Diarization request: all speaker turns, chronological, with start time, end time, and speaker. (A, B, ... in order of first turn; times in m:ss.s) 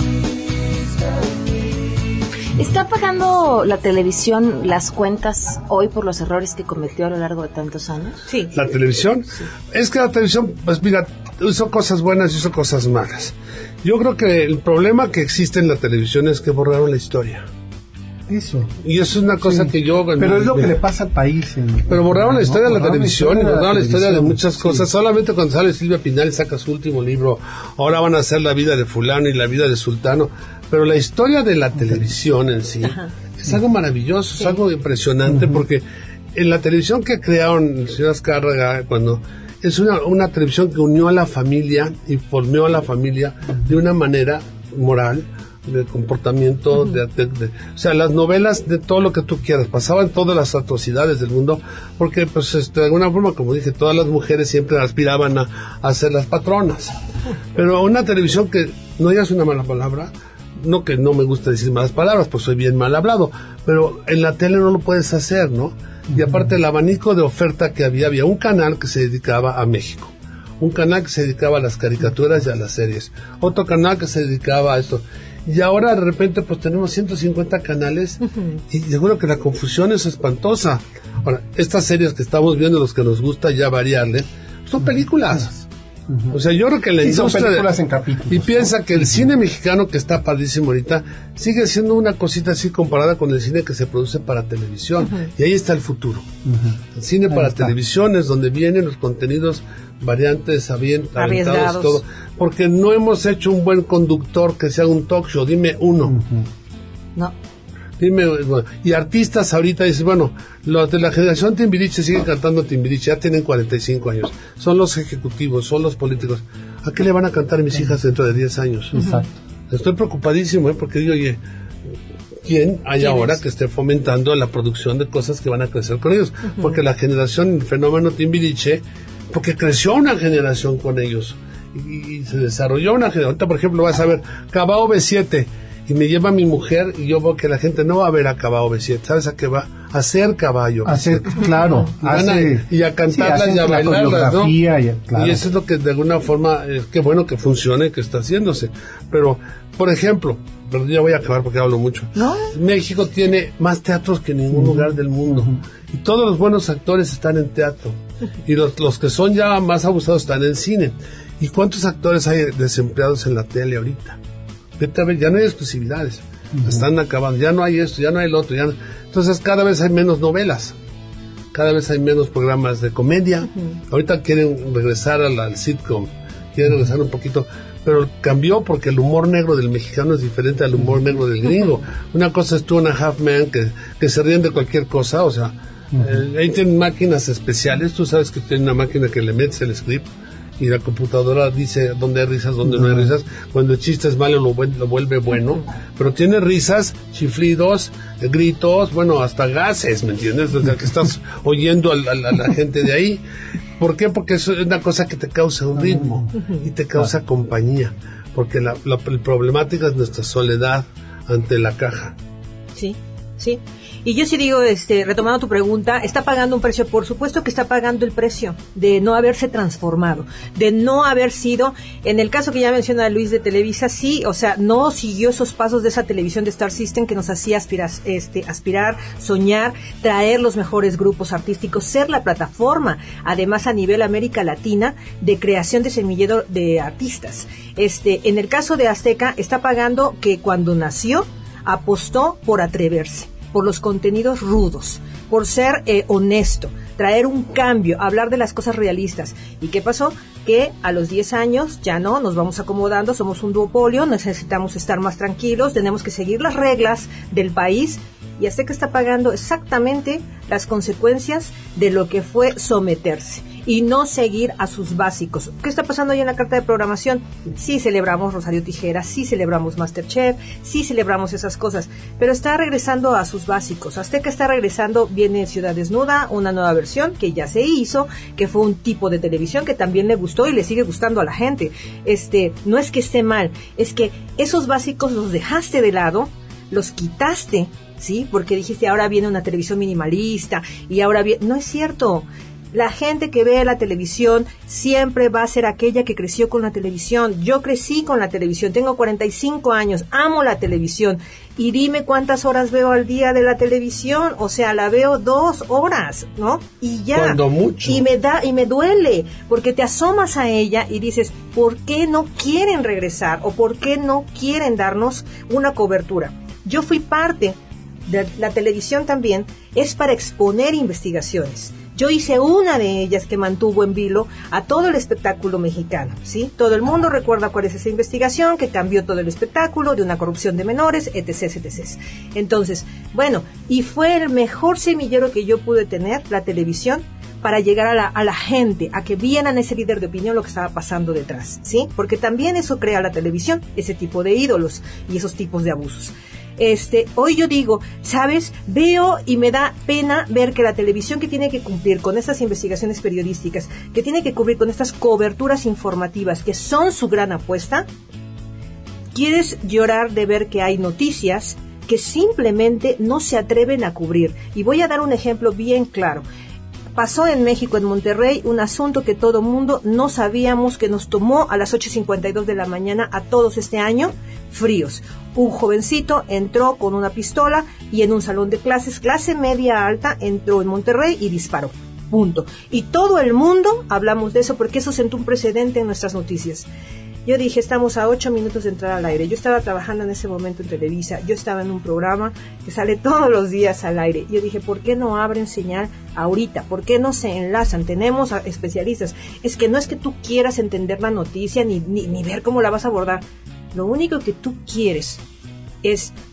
0:02.5-0:08.2 A
0:08.5-0:17.4 B
0:18.3-0:18.7 C
0:18.8-0:20.7 B
0:19.4-0:24.9 C
0:21.9-0:35.8 B
0:31.8-0:32.0 C
0:32.8-0:33.1 D
0:35.3-0:35.6 C
0:36.3-0:56.9 B
0:57.5-1:25.6 B
1:06.1-1:06.5 C
1:26.1-1:26.4 C
1:26.3-1:27.7 B
1:27.0-1:29.2 C
1:28.3-1:36.3 B
1:36.4-1:37.7 C
1:37.0-1:46.1 B
1:41.1-1:42.0 D
1:46.0-1:46.5 C
1:48.0-1:59.1 B
1:58.9-1:59.3 C
1:58.9-1:59.2 D
1:59.7-2:01.4 B
2:02.4-2:24.5 B
2:03.0-2:03.4 D
2:20.8-2:25.4 C
2:25.1-2:44.2 B
2:32.2-2:32.5 A
2:34.5-2:35.6 C
2:44.8-2:50.7 B
2:46.5-2:46.9 C
2:51.5-3:10.1 B
2:56.6-2:56.9 C
3:05.9-3:06.2 C
3:10.6-3:23.2 B
3:12.6-3:13.1 C
3:23.8-3:32.1 B
3:25.7-3:26.3 C
3:26.4-3:26.6 D
3:32.8-5:17.6 D
5:07.1-5:08.0 B
5:18.1-5:57.8 D
5:59.1-6:06.2 D
6:06.9-6:26.7 D
6:27.2-6:45.2 D
6:45.8-6:46.1 D